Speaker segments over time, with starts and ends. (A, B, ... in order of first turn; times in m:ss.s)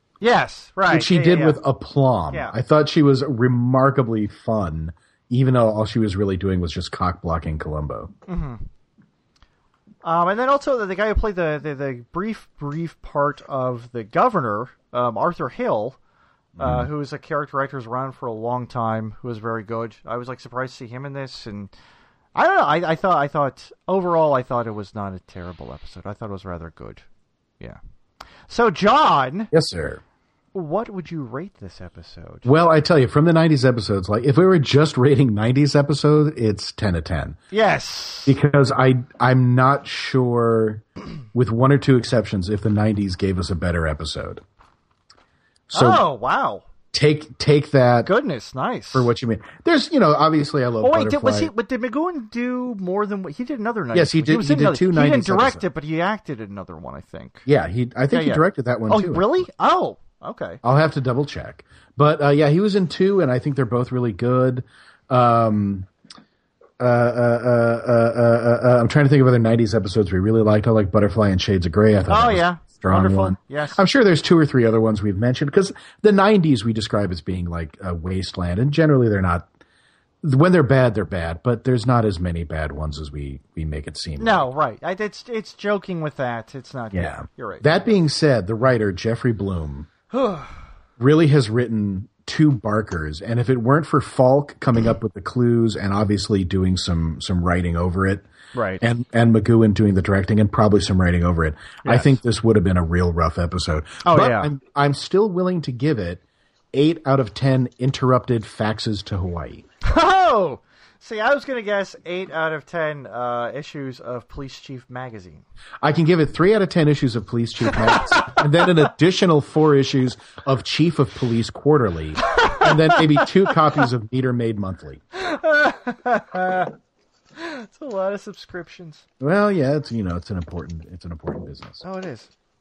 0:00.2-0:01.6 A
0:00.9-0:08.1 B
0:02.3-0:02.6 A
0:08.3-0:08.6 A
0:10.0-0:16.0 A
0:16.6-0:16.9 B
0:16.6-0:21.7 A
0:22.3-0:27.0 A
0:28.5-0:29.5 A
0:29.5-0:30.0 B
0:30.5-0:32.5 A
0:32.4-0:37.4 B
0:37.5-0:38.4 A
0:38.3-0:44.4 B
0:45.7-0:46.0 B
0:45.7-0:46.6 A
0:46.9-0:48.1 B
0:48.0-0:49.1 A
0:48.9-0:51.5 B
0:50.8-0:57.4 A
0:53.9-0:55.6 B
0:57.4-0:59.4 B
0:58.1-1:00.6 A
1:00.6-1:05.9 B
1:06.8-1:19.5 B
1:12.1-1:13.8 A
1:20.2-1:24.4 B
1:24.2-1:27.7 A
1:26.9-1:29.9 B
1:30.1-1:30.5 A
1:31.0-1:38.3 B
1:38.5-1:38.8 A
1:38.8-1:46.2 B
1:41.8-1:42.2 A
1:44.0-1:44.5 A
1:46.7-1:49.6 B
1:49.8-1:55.4 A
1:55.8-2:05.0 B
1:58.0-1:58.4 A
2:02.4-2:03.0 A
2:05.1-2:06.7 A
2:07.3-2:09.0 A
2:09.2-2:11.8 B
2:11.8-2:12.3 A